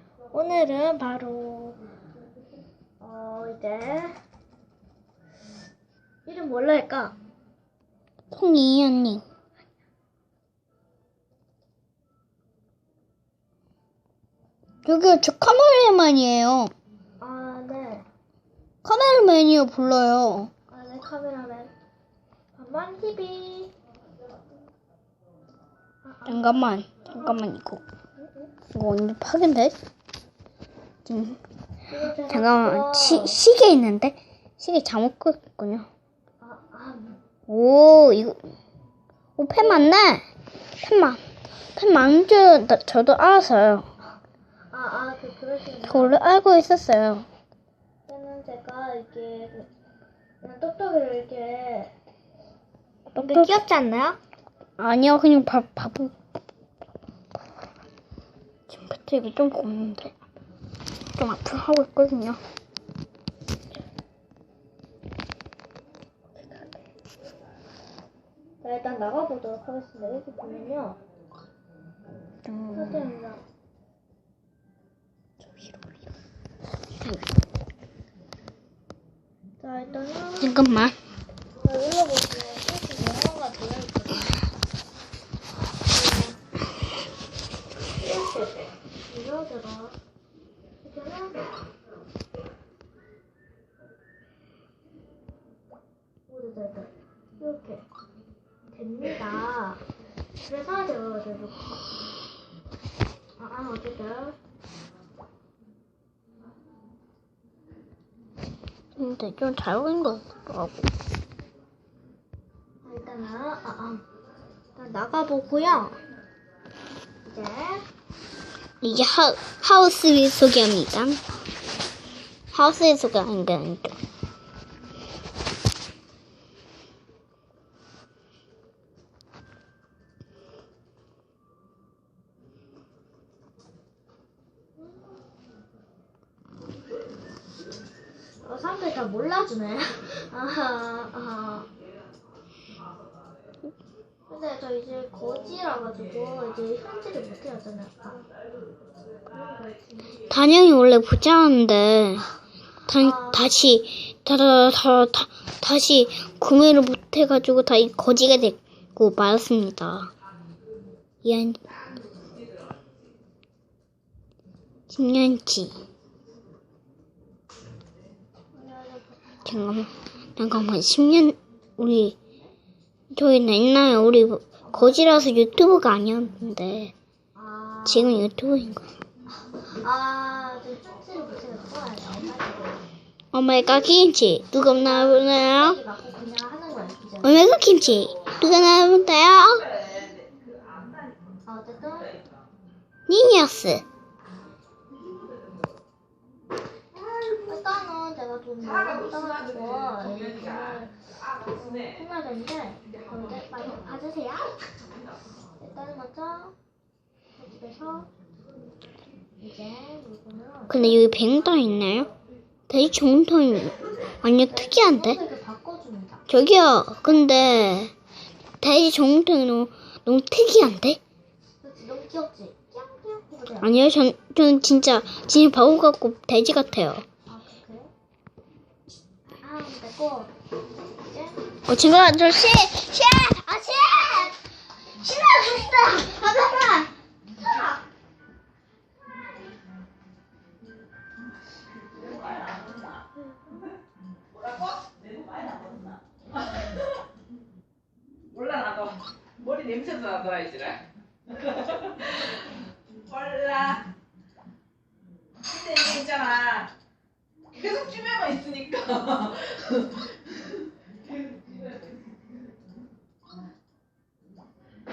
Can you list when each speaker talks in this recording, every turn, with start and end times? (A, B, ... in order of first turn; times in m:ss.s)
0:00.3-0:01.8 A
0:03.0-0:04.2 A
0:06.2-0:07.2 A
0:08.3-0:09.2 B
0:14.8-0:16.7 B
0:17.2-0:18.1 A
0:18.8-0:20.5 B
0:20.7-0:21.7 A
0:22.6-0:23.7 A
0:26.0-0:27.4 A
0:26.3-0:27.8 B
0:28.2-0:28.5 A
0:28.7-0:29.8 B
0:31.1-0:31.4 B
0:31.9-0:33.4 A
0:32.3-0:35.9 B
0:36.4-0:37.2 A
0:37.5-0:38.4 B
0:39.4-0:40.2 B
0:39.6-0:39.9 A
0:40.8-0:41.2 B
0:41.8-0:43.9 B
0:44.7-0:46.2 A
0:45.9-0:47.3 B
0:48.1-0:49.7 A
0:50.4-0:51.9 A
0:53.1-0:53.5 B
0:53.2-0:54.2 A
0:54.8-0:56.1 B
0:58.7-1:00.2 B
1:01.2-1:02.4 B
1:06.4-1:06.7 B
1:08.6-1:11.0 A
1:12.5-1:13.1 B
1:12.7-1:13.4 A
1:15.4-1:15.9 B
1:19.6-1:20.6 A
1:20.4-1:21.0 B
1:21.6-1:24.3 A
1:25.9-1:26.4 A
1:28.0-1:30.0 A
1:30.8-1:31.6 A
1:36.3-1:37.9 A
1:38.7-1:39.8 A
1:40.4-1:41.7 A
1:43.4-1:44.4 A
1:49.0-1:50.9 B
1:52.8-1:54.0 A
1:54.8-1:56.0 A
1:57.2-1:57.8 A
1:58.8-2:01.2 B
2:02.5-2:04.0 B
2:18.4-2:21.7 A
2:24.3-2:28.2 A
2:29.3-2:30.2 A
2:30.3-2:32.3 B
2:32.9-2:40.1 B
2:33.0-2:33.5 A
2:41.2-2:41.6 B
2:44.9-2:45.8 B
2:48.5-2:49.4 A
2:49.4-2:52.2 B
2:53.1-2:56.9 B
2:54.6-2:55.0 A
2:57.4-2:58.2 A
2:57.9-2:58.9 B
2:59.8-3:02.8 A
3:03.3-3:05.8 B
3:04.8-3:07.4 A
3:07.2-3:09.6 B
3:11.5-3:12.2 A
3:13.1-3:13.9 B
3:17.4-3:20.9 A
3:21.5-3:24.6 A
3:25.6-3:26.6 A
3:27.4-3:28.1 A
3:29.4-3:31.1 A
3:30.7-3:32.1 B
3:32.7-3:35.2 B
3:34.5-3:36.3 A
3:36.3-3:37.9 B
3:38.6-3:41.0 B
3:41.6-3:43.9 A
3:43.6-3:47.0 B
3:47.3-3:47.9 A
3:49.3-3:50.3 A
3:50.9-3:51.5 A
3:51.7-3:54.0 B
3:53.8-3:54.4 A
3:55.0-3:56.9 A
4:09.6-4:10.7 C
4:13.4-4:13.7 C
4:15.6-4:16.7 C
4:17.6-4:19.2 C